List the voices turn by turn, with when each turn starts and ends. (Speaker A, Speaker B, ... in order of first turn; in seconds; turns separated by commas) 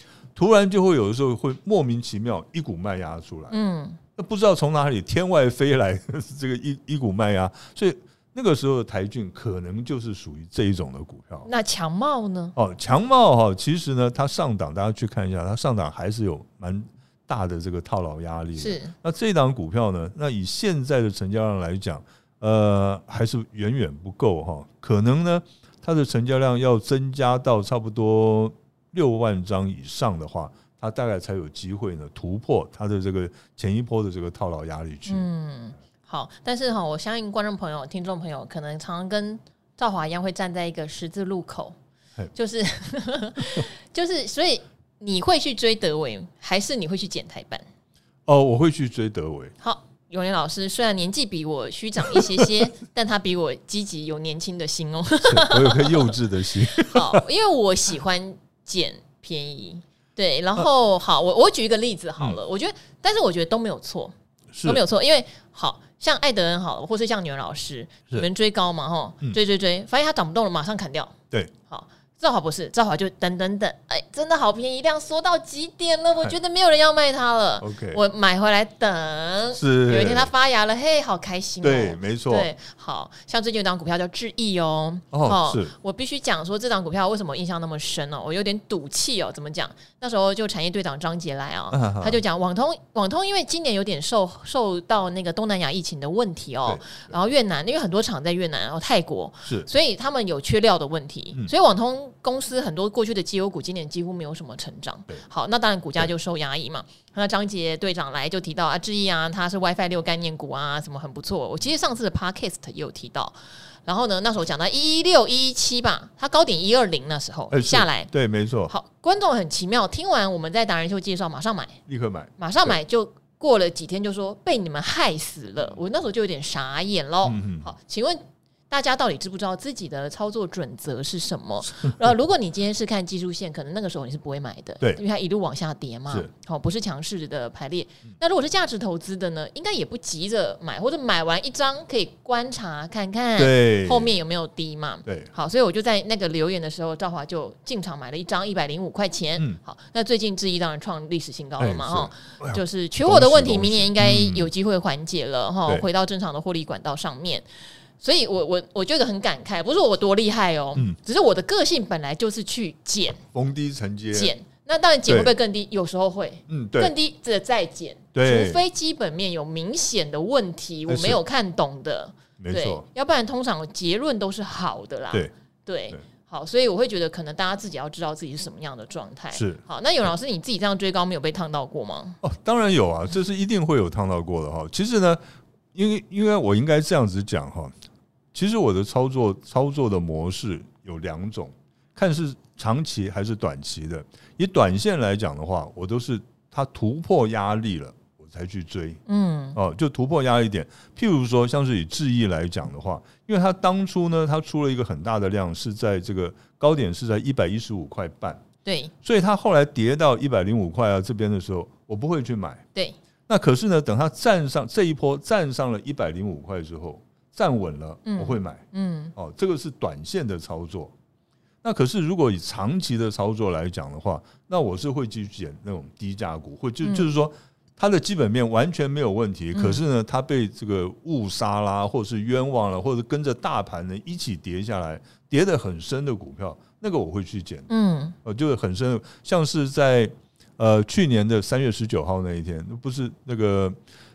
Speaker A: 0.3-3.5, Speaker B: 3.5-4.0, Speaker A: 4.2-11.5, Speaker B: 11.4-12.5, Speaker A: 12.6-35.2, Speaker B: 18.6-18.9, Speaker B: 35.1-41.8, Speaker B: 42.3-47.6, Speaker A: 48.3-49.5, Speaker B: 49.6-71.1, Speaker A: 52.1-52.5, Speaker A: 55.2-57.2, Speaker A: 64.5-64.8, Speaker B: 71.7-113.3, Speaker A: 77.6-78.0, Speaker A: 79.5-80.3, Speaker A: 81.6-82.5, Speaker A: 85.1-85.7, Speaker A: 91.7-92.2, Speaker A: 96.7-97.1, Speaker B: 113.8-118.1, Speaker A: 117.5-118.7, Speaker B: 118.7-121.8, Speaker A: 121.9-122.7, Speaker B: 122.4-157.4, Speaker A: 127.2-127.7, Speaker A: 143.4-144.1, Speaker A: 151.6-154.5, Speaker B: 158.0-163.2, Speaker A: 163.3-164.3, Speaker B: 164.1-182.2, Speaker A: 165.1-165.3, Speaker A: 166.5-166.9, Speaker A: 168.1-168.6, Speaker A: 170.9-171.2, Speaker A: 172.4-172.8, Speaker A: 179.3-179.6, Speaker A: 182.2-185.2, Speaker A: 185.7-187.7, Speaker A: 188.3-199.0, Speaker B: 199.1-199.6, Speaker A: 199.6-208.4, Speaker B: 208.6-208.9, Speaker A: 209.0-212.6, Speaker A: 213.3-218.6, Speaker B: 218.1-219.1, Speaker A: 219.1-220.9, Speaker A: 221.6-237.7, Speaker B: 226.8-227.1, Speaker B: 229.5-229.8, Speaker B: 237.7-238.2, Speaker A: 238.2-243.7